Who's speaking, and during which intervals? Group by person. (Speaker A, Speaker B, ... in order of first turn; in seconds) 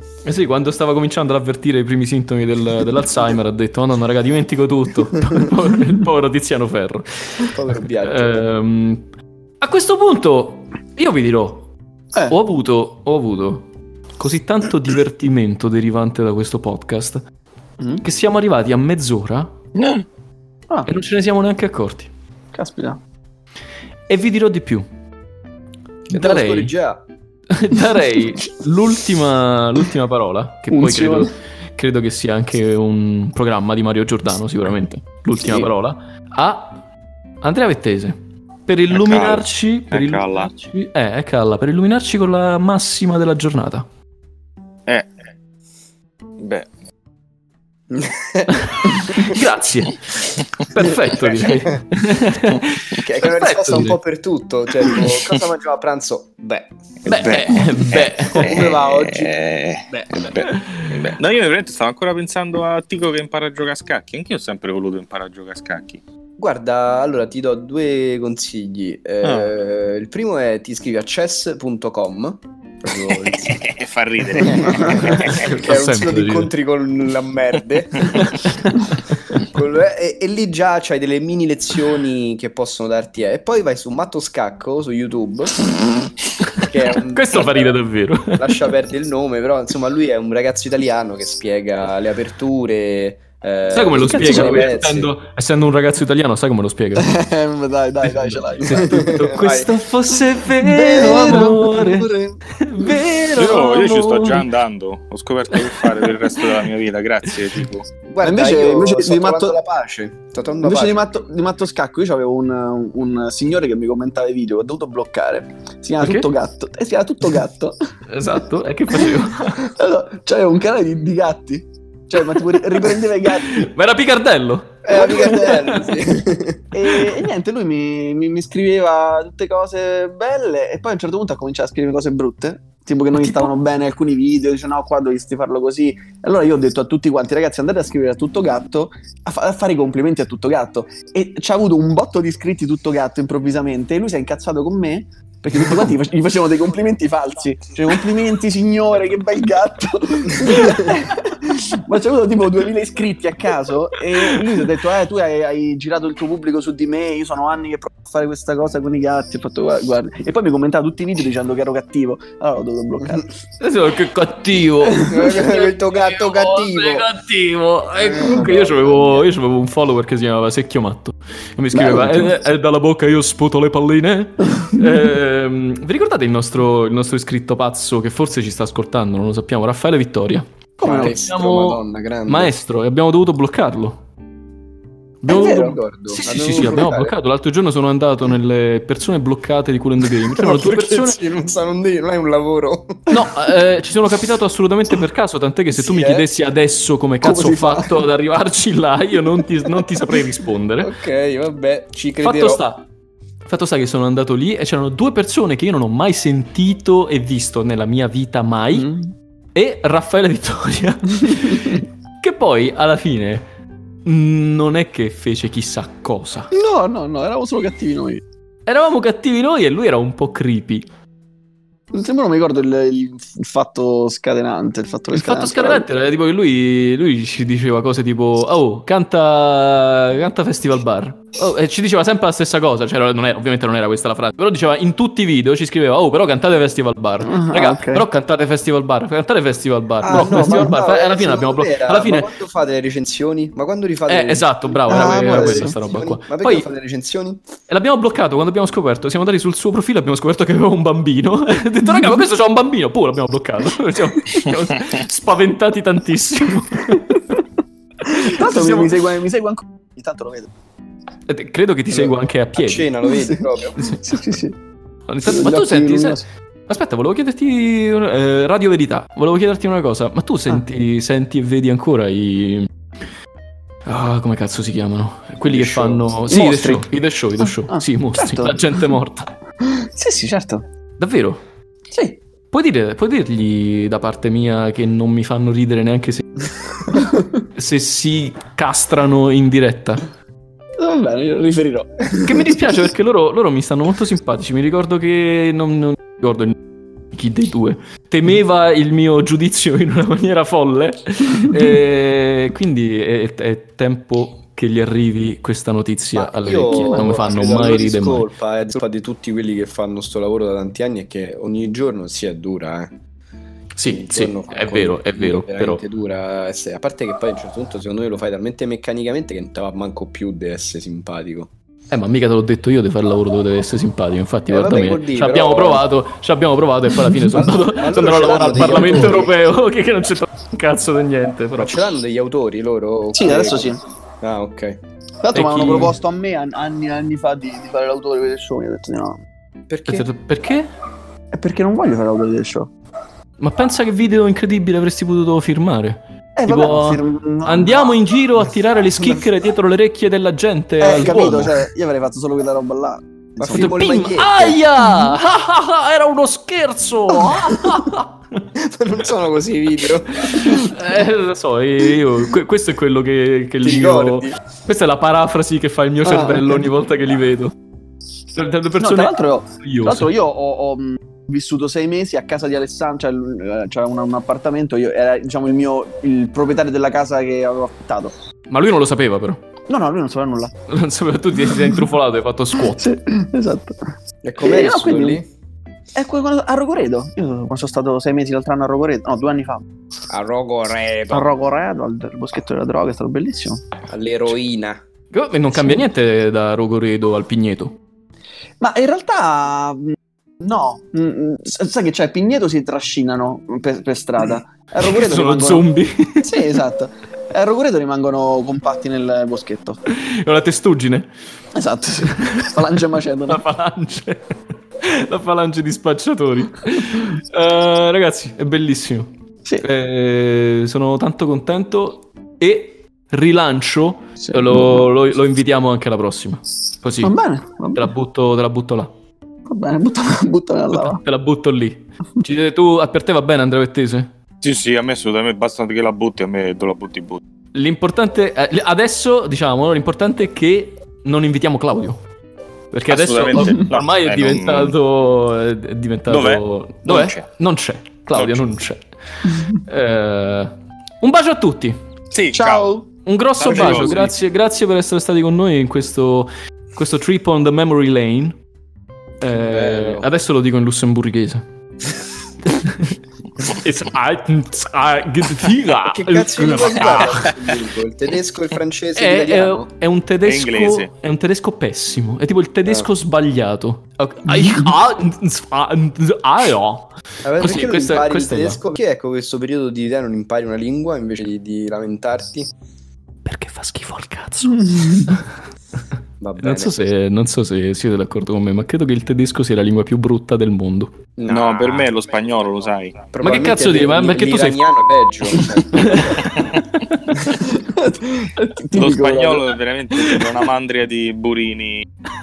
Speaker A: 0.2-9.1, 9.6-11.7, 12.3-17.2, 18.0-19.5, 20.8-22.1, 24.1-24.9, 26.1-26.7, 27.5-36.8, 37.4-43.9, 48.5-54.0, 57.1-58.6, 60.4-61.1, 75.2-76.5, 78.1-78.7, 87.1-88.7, 93.7-97.1, 98.0-104.5, 105.5-106.1, 116.0-116.3, 118.1-119.7, 122.4-125.9, 133.1-133.5, 163.6-184.0, 185.2-191.2, 193.1-200.9, 202.2-202.8, 203.5-208.9, 209.5-213.5, 214.0-216.5, 218.7-220.9, 225.1-242.3, 244.1-246.7, 247.7-257.2, 258.1-259.0, 261.3-262.9, 265.1-272.7, 273.9-279.3, 281.0-281.4, 282.5-286.4, 287.5-290.1, 292.2-296.6, 297.1-308.3, 313.7-315.8, 321.9-331.8, 335.3-336.0, 339.9-340.7, 343.4-351.6, 353.5-358.5, 360.2-367.5, 368.3-370.1, 378.5-379.4, 380.7-382.9, 395.1-397.8, 404.8-406.6, 409.9-411.1, 412.2-412.5, 413.3-427.1, 427.7-428.9, 430.7-434.1, 437.5-442.0, 442.7-451.8, 453.0-458.3, 459.2-461.4, 462.5-467.4, 468.9-478.6, 483.2-485.2, 486.4-490.9, 493.2-494.7, 495.3-496.6, 499.9-500.2
Speaker B: 7.4-8.4, 26.1-27.0, 47.9-49.4, 51.4-51.8, 52.9-57.5, 58.3-59.3, 59.9-60.4, 66.4-73.6, 74.3-78.3, 79.3-85.6, 86.6-87.7, 88.3-95.1, 98.7-99.8, 100.3-102.4, 108.1-111.0, 124.8-126.7, 164.9-167.1, 168.0-169.3, 171.7-172.3, 180.8-182.6, 185.2-187.2, 190.2-193.2, 195.7-196.3, 200.8-202.6, 240.0-247.4, 261.9-263.9, 275.5-276.1, 306.1-313.0, 313.9-321.5, 324.5-325.8, 327.2-329.3, 331.6-334.8, 339.7-340.1, 353.4-354.6, 358.5-360.7, 363.6-364.4, 384.2-385.3, 390.1-391.3, 393.9-394.8, 459.4-460.1, 465.8-469.7, 477.2-482.5, 486.2-486.7, 491.2-491.9, 493.1-496.1
Speaker C: 19.8-20.0, 38.9-40.5, 46.4-46.7, 57.1-66.0, 69.2-69.5, 73.0-75.5, 103.3-107.8, 434.4-437.2, 442.9-444.7, 446.1-447.2, 448.1-448.6, 452.1-452.8, 453.4-454.1, 470.2-470.9, 491.3-493.1, 496.3-496.6, 498.7-501.9
Speaker D: 22.5-23.0, 30.7-31.3, 35.4-35.7, 58.3-59.3, 94.0-94.7, 97.0-99.1, 100.9-101.6, 108.2-109.6, 110.6-117.8, 119.0-123.7, 124.9-125.8, 126.7-163.3, 180.8-181.2, 185.3-185.8, 197.2-198.0, 208.7-209.1, 216.5-218.2, 221.9-225.8, 237.2-238.0, 240.1-240.8, 244.9-245.7, 258.1-260.5, 263.1-264.6, 265.2-266.2, 276.3-276.9, 277.4-278.8, 279.6-280.6, 281.9-282.2, 287.0-287.3, 290.8-292.6, 328.4-329.3, 333.1-333.8, 335.2-339.2, 341.3-342.7, 346.4-348.0, 350.8-353.7, 366.0-366.6, 368.8-378.1, 379.7-380.5, 382.7-383.8, 384.4-385.2, 385.9-389.7, 391.1-393.6, 398.6-405.7, 406.2-409.8, 411.5-413.4, 424.2-424.9, 427.0-427.9, 429.5-431.0, 452.3-452.8, 497.5-499.5